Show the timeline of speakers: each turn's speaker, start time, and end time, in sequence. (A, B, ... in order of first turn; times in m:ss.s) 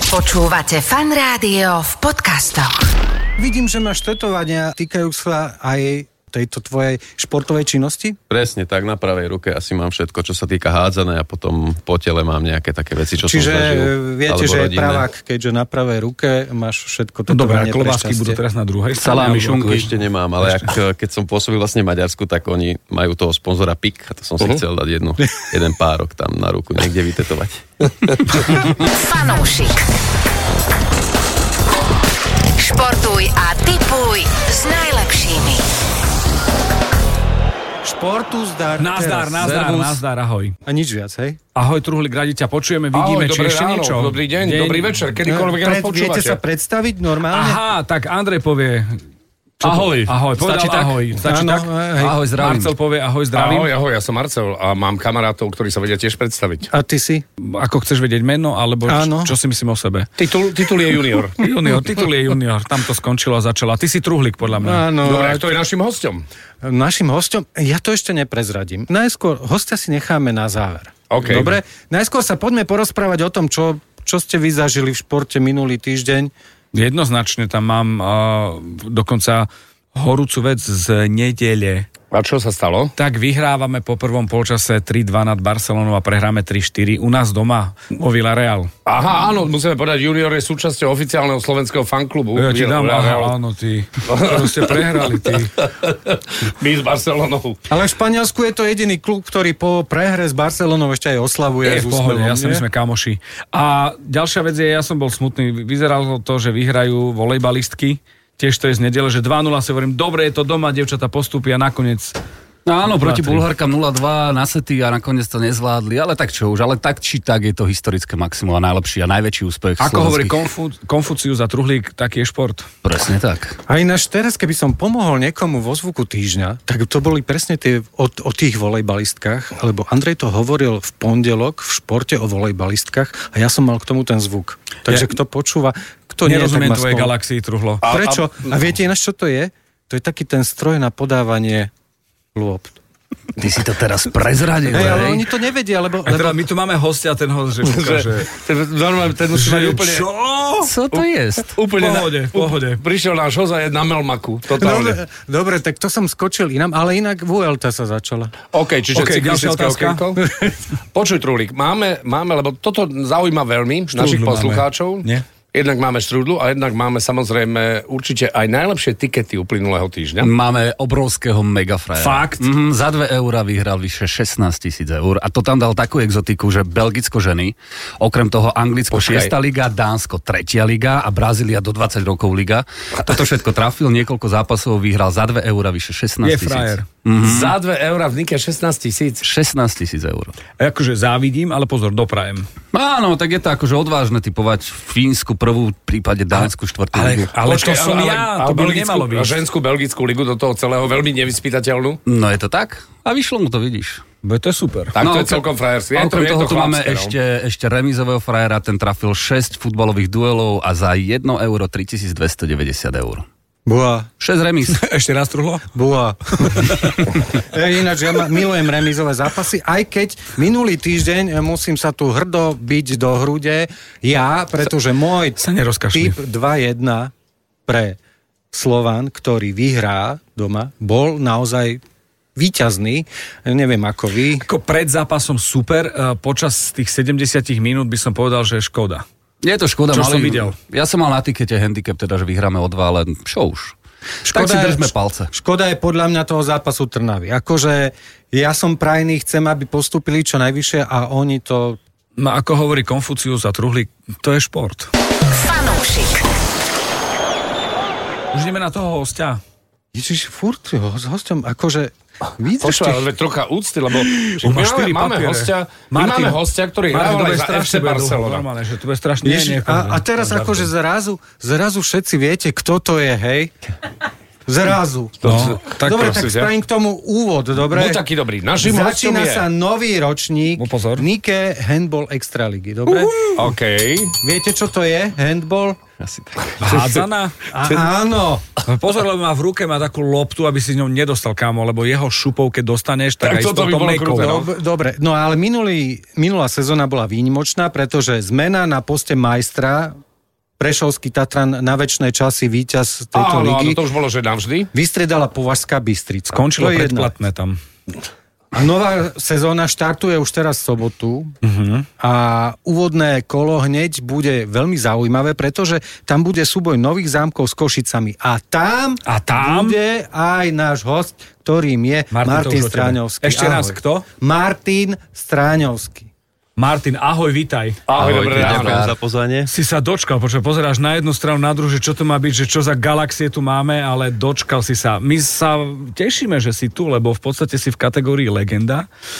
0:00.1-0:00.6 A
0:02.0-0:02.7 A
0:03.4-0:08.2 B
0:08.3-0:15.1 C
0:13.2-0:18.4 B
0:17.3-0:20.7 D
0:19.0-0:19.9 E
0:19.8-0:27.6 C
0:28.9-0:29.9 A
0:32.6-0:35.6 A
0:37.8-0:40.0 B
0:38.8-0:40.6 D
0:40.7-0:41.4 B
0:41.6-0:45.0 D
0:42.9-0:46.4 F
0:45.2-0:47.6 B
0:47.3-0:49.0 D
0:49.6-0:51.7 D
0:49.8-0:51.0 E
0:51.2-0:52.2 B
0:52.0-0:52.8 E
0:52.4-0:53.7 D
0:53.3-0:56.7 F
0:56.7-0:57.2 B
0:57.4-1:00.1 D
0:58.8-0:59.4 B
1:00.2-1:01.4 F
1:01.4-1:04.8 D
1:04.6-1:05.5 B
1:05.0-1:06.2 F
1:06.6-1:16.3 B
1:11.1-1:11.6 F
1:16.7-1:21.9 D
1:22.1-1:22.9 F
1:23.0-1:28.7 D
1:28.9-1:33.4 F
1:32.4-1:35.5 D
1:34.1-1:35.0 F
1:35.6-1:37.6 F
1:37.7-1:42.6 B
1:41.6-1:52.2 D
1:52.7-2:00.5 E
1:52.8-1:53.5 D
1:59.8-2:02.7 D
2:02.8-2:03.6 E
2:03.7-2:17.1 B
2:16.2-2:17.8 D
2:17.8-2:18.5 F
2:17.9-2:21.7 B
2:22.4-2:22.8 B
2:23.4-2:25.3 E
2:24.7-2:26.4 B
2:26.1-2:28.3 D
2:27.6-2:30.1 F
2:29.4-2:30.8 D
2:30.6-2:31.6 E
2:31.6-2:35.0 F
2:31.7-2:32.8 D
2:34.6-2:38.3 B
2:38.5-2:40.2 F
2:38.9-2:40.0 D
2:40.9-2:50.3 F
2:43.9-2:45.2 D
2:50.2-3:07.5 E
2:52.0-2:52.5 D
2:58.9-2:59.3 F
3:06.2-3:06.9 D
3:07.2-3:09.2 F
3:09.2-3:10.4 E
3:10.6-3:12.5 D
3:12.7-3:17.4 E
3:16.3-3:19.4 D
3:17.4-3:22.0 F
3:22.1-3:24.0 E
3:24.2-3:25.0 D
3:25.0-3:27.2 F
3:25.0-3:25.4 E
3:26.0-3:33.3 E
3:33.7-3:34.1 B
3:34.2-3:34.8 E
3:34.7-3:35.7 D
3:35.7-3:36.8 B
3:36.5-3:37.1 D
3:37.3-3:47.1 B
3:45.4-3:46.2 D
3:47.7-3:48.0 B
3:48.5-3:51.8 B
3:52.4-3:54.4 B
3:54.4-3:59.0 D
3:59.4-4:05.3 E
3:59.9-4:00.6 D
4:04.3-4:11.8 B
4:12.2-4:14.9 D
4:15.3-4:16.3 A
4:18.3-4:19.4 D
4:19.9-4:23.1 B
4:22.6-4:28.5 F
4:23.9-4:30.6 D
4:29.2-4:33.5 B
4:34.5-4:35.2 B
4:35.2-4:36.5 F
4:35.2-4:36.1 D
4:35.8-4:38.0 B
4:37.7-4:39.5 F
4:38.6-4:43.2 B
4:40.6-4:41.1 D
4:43.4-4:44.2 F
4:44.2-4:45.8 B
4:46.0-4:46.5 C
4:46.6-4:47.8 D
4:47.5-4:48.4 B
4:48.7-4:54.4 D
4:53.2-4:54.5 F
4:54.2-5:00.0 B
5:00.6-5:03.8 B
5:03.1-5:04.7 F
5:04.7-5:07.2 B
5:06.3-5:07.6 D
5:08.5-5:11.4 B
5:11.4-5:11.9 D
5:12.0-5:26.1 B
5:19.1-5:19.8 D
5:22.1-5:24.0 D
5:26.6-5:27.8 D
5:27.9-5:28.9 F
5:28.0-5:29.5 C
5:29.5-5:38.9 D